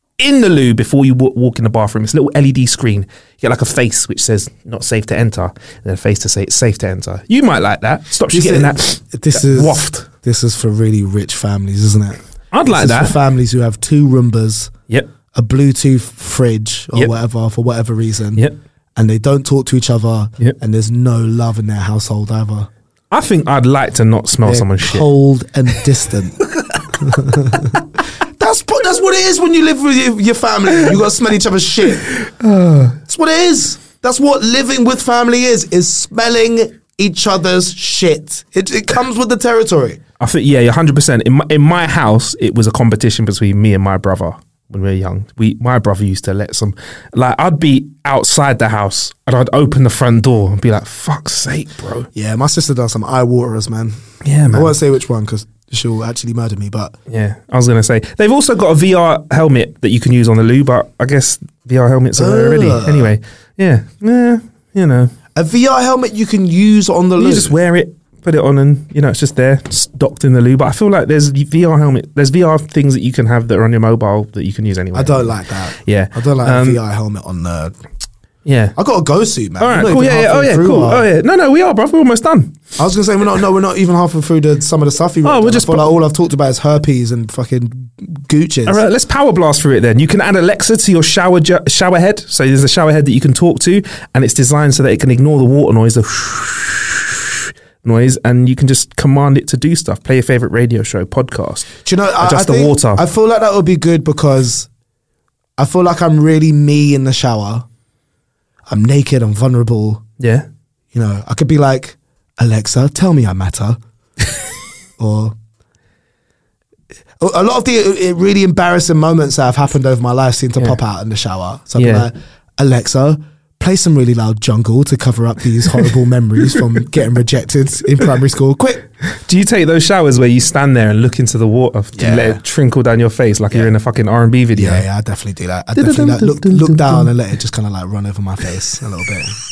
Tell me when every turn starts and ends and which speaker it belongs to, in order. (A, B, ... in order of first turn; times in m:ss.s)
0:00.2-0:10.1 A
0:08.3-0:14.7 B
0:12.5-0:13.2 A
0:15.3-0:22.7 B
0:23.1-0:25.1 A
0:24.4-0:26.5 B
0:27.0-0:27.8 B
0:28.4-0:32.1 B
0:32.1-0:33.0 A
0:33.1-0:40.0 B
0:40.2-0:52.1 A
0:52.2-0:57.0 B
0:54.2-0:54.8 A
0:57.1-1:05.1 A
1:02.2-1:03.2 B
1:05.4-1:07.6 B
1:07.2-1:16.8 A
1:14.9-1:17.8 B
1:18.5-1:18.8 A
1:18.8-1:21.1 B
1:19.6-1:22.6 A
1:22.8-1:28.8 B
1:25.2-1:26.0 A
1:28.7-1:43.0 A
1:41.8-1:44.7 B
1:45.6-1:47.6 B
1:48.7-1:50.0 B
1:50.2-1:50.5 A
1:50.9-1:53.8 B
1:55.0-1:55.4 B
1:57.2-2:08.9 B
2:01.8-2:02.1 A
2:09.2-2:14.8 A
2:12.0-2:12.4 B
2:14.6-2:19.4 B
2:15.8-2:17.1 A